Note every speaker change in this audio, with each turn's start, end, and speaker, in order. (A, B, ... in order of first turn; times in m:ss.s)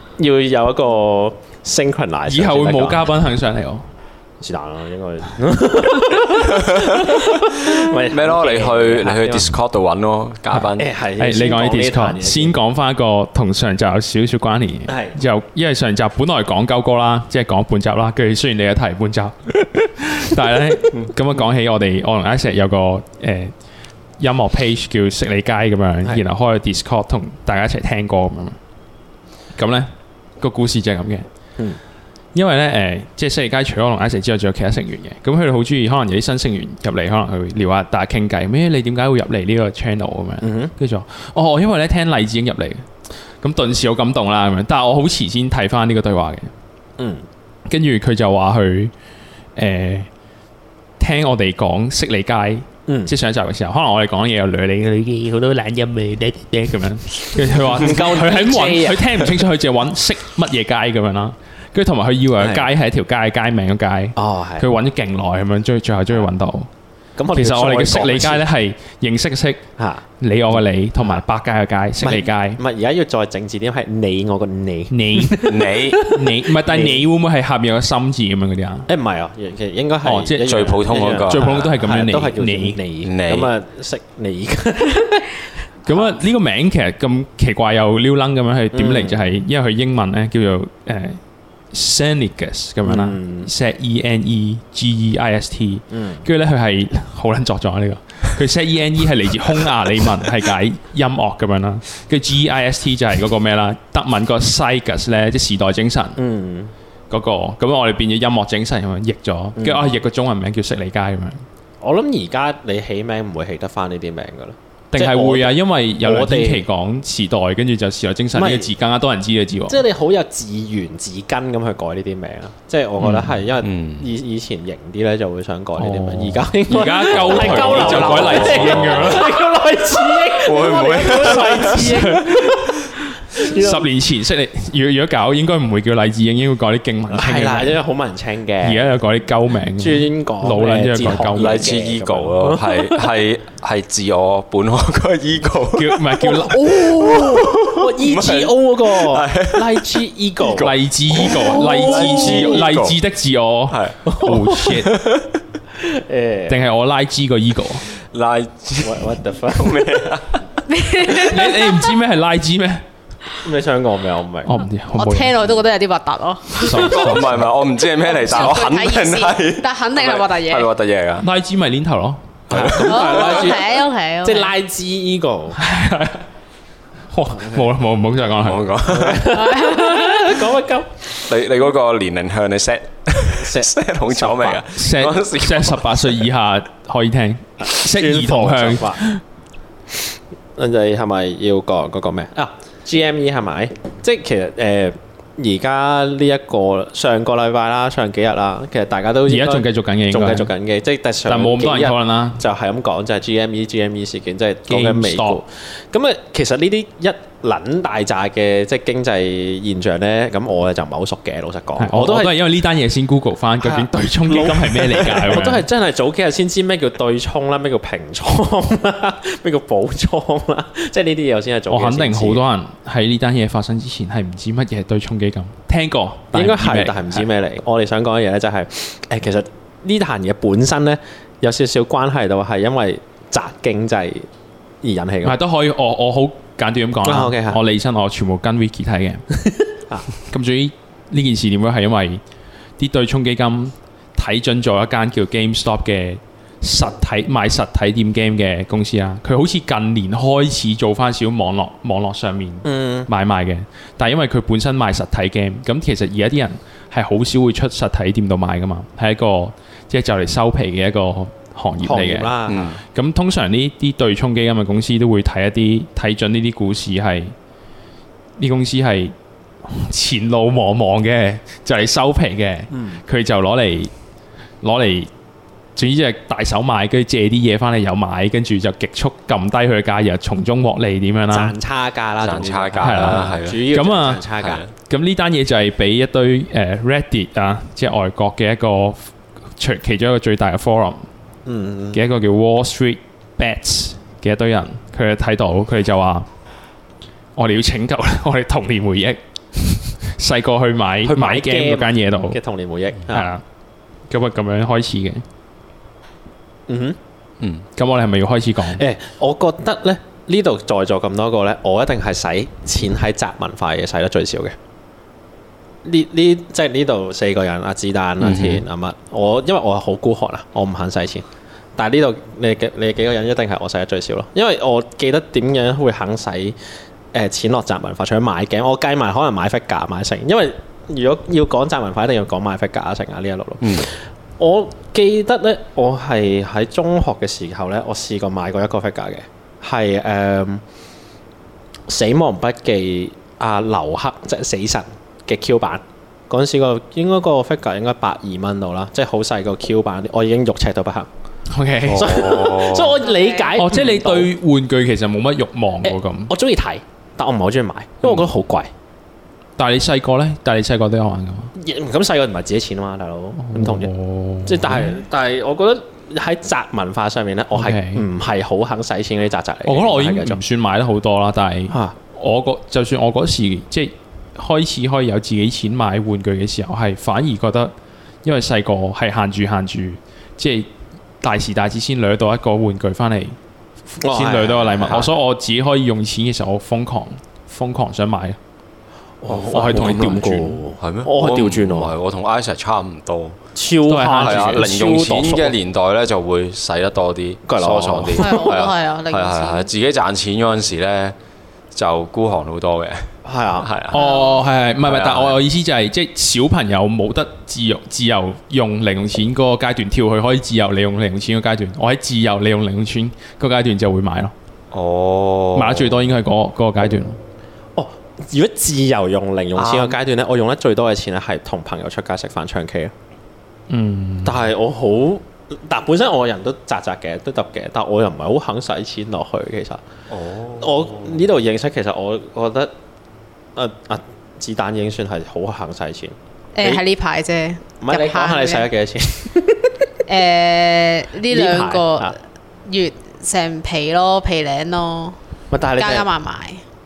0:00.2-0:03.1 A
0:02.3-0:03.8 B
0:04.4-0:09.6 A
0:06.5-0:07.1 C
0:07.7-0:10.9 C
0:10.7-0:12.6 A
0:11.2-0:23.5 B
0:14.9-0:15.2 A
0:24.2-0:28.6 B
0:29.5-0:31.2 B
0:32.3-0:42.9 B
0:40.4-0:40.7 A
0:43.4-0:46.5 B
0:47.0-0:47.2 A
0:47.7-0:48.9 B
0:49.6-0:50.1 B
0:51.0-1:06.7 B
0:52.9-0:53.1 A
0:57.6-0:59.3 A
1:02.4-1:02.7 A
1:04.2-1:04.7 A
1:07.2-1:08.5 A
1:07.3-1:09.6 B
1:09.8-1:10.0 A
1:10.2-1:12.6 B
1:12.0-1:17.1 A
1:14.9-1:18.9 B
1:15.4-1:16.0 C
1:18.9-1:25.3 A
1:20.0-1:22.8 B
1:20.4-1:21.6 C
1:23.0-1:23.5 C
1:25.8-1:26.1 A
1:25.8-1:31.2 B
1:28.7-1:29.2 A
1:31.7-1:46.2 B
1:32.8-1:33.5 A
1:35.9-1:36.2 A
1:46.2-1:46.7 A
1:47.1-1:51.4 B
1:49.6-1:49.9 A
1:51.8-1:56.6 A
1:54.9-1:59.8 B
1:58.3-1:58.7 A
1:59.7-2:12.8 A
2:03.0-2:04.1 C
2:05.8-2:09.2 B
2:07.1-2:09.3 C
2:10.4-2:12.1 C
2:11.0-2:17.8 B
2:13.3-2:13.9 A
2:17.1-2:18.9 A
2:18.6-2:21.6 B
2:19.8-2:23.1 A
2:21.3-2:26.2 C
2:25.8-2:26.8 B
2:26.3-2:32.7 A
2:26.8-2:29.9 C
2:30.4-2:33.0 C
2:30.6-2:34.9 B
2:33.7-2:34.0 C
2:34.0-2:34.8 A
2:34.8-2:35.4 C
2:35.7-2:36.6 A
2:36.5-2:37.8 B
2:38.1-2:40.4 C
2:38.8-2:40.2 A
2:40.7-2:41.9 D
2:41.1-2:42.8 B
2:43.4-2:44.6 A
2:44.4-2:45.3 B
2:45.0-2:47.1 D
2:46.5-2:47.4 B
2:46.8-2:51.2 C
2:48.0-2:50.7 D
2:51.2-2:52.3 B
2:52.5-2:53.5 C
2:52.5-2:55.6 A
2:52.8-2:54.5 D
2:55.6-2:56.2 B
2:57.1-2:58.6 B
2:58.4-2:59.3 C
2:58.9-3:01.0 A
2:59.3-3:00.5 D
3:01.2-3:06.2 C
3:03.3-3:04.6 A
3:04.7-3:09.2 B
3:07.6-3:09.0 A
3:10.6-3:32.4 A
3:19.3-3:20.5 B
3:21.3-3:22.4 B
3:24.7-3:25.4 B
3:31.8-3:35.6 B
3:33.6-3:42.4 A
3:41.7-3:47.2 B
3:46.3-3:54.3 A
3:54.8-3:55.4 A
3:55.2-3:59.2 B
3:57.0-3:57.6 A
3:59.4-4:00.1 A
4:00.3-4:02.2 B
4:02.8-4:22.3 B
4:12.6-4:13.1 A
4:21.8-4:22.7 A
4:22.5-4:22.8 C
4:22.9-4:27.3 B
4:28.4-4:33.9 B
4:32.7-4:33.0 A
4:34.6-4:35.1 B
4:35.8-4:41.5 B
4:41.3-4:44.6 A
4:42.2-4:43.6 C
4:42.8-4:44.2 B
4:44.4-4:44.7 C
4:44.9-4:51.0 B
4:51.4-4:52.0 A
4:51.9-4:56.3 B
4:57.4-5:02.4 B
5:01.0-5:03.3 A
5:03.1-5:03.4 B
5:04.1-5:05.2 B
5:06.7-5:07.0 A
5:07.8-5:08.8 B
5:08.7-5:14.6 A
5:15.8-5:21.2 A
5:18.2-5:18.6 C
5:21.8-5:26.6 A
5:27.1-5:40.6 A
5:33.6-5:33.9 C
5:41.9-5:51.1 A
5:51.5-5:52.2 B
5:51.9-5:53.0 C
5:51.9-5:54.3 A
5:53.0-5:53.6 D
5:53.6-5:56.3 B
5:55.8-5:58.7 A
5:59.6-6:01.5 B
6:01.6-6:03.9 A
6:03.4-6:05.0 B
6:04.4-6:10.4 A
6:07.5-6:08.0 B
6:09.6-6:17.7 B
6:11.7-6:11.9 A
6:18.2-6:20.7 B
6:21.2-6:23.4 B
6:23.9-6:28.4 B
6:24.0-6:25.1 A
6:29.2-6:31.9 A
6:29.3-6:30.6 B
6:30.8-6:33.4 C
6:33.5-6:35.6 A
6:33.9-6:34.7 B
6:34.2-6:41.1 C
6:37.5-6:38.6 A
6:38.1-6:39.7 D
6:41.7-6:43.1 C
6:43.2-6:43.7 A
6:43.6-6:44.0 C
6:43.9-6:54.3 B
6:43.9-6:44.4 D
6:44.8-6:45.4 C
6:54.7-6:56.0 C
6:55.5-6:57.2 B
6:57.8-7:02.9 A
6:59.6-7:00.0 C
7:03.7-7:04.4 B
7:04.2-7:09.8 A
7:10.1-7:11.1 C
7:10.6-7:12.7 A
7:13.5-7:16.8 A
7:16.6-7:18.7 D
7:17.8-7:19.8 A
7:20.1-7:25.2 D
7:21.3-7:22.2 A
7:25.5-7:26.1 A
7:25.8-7:26.6 D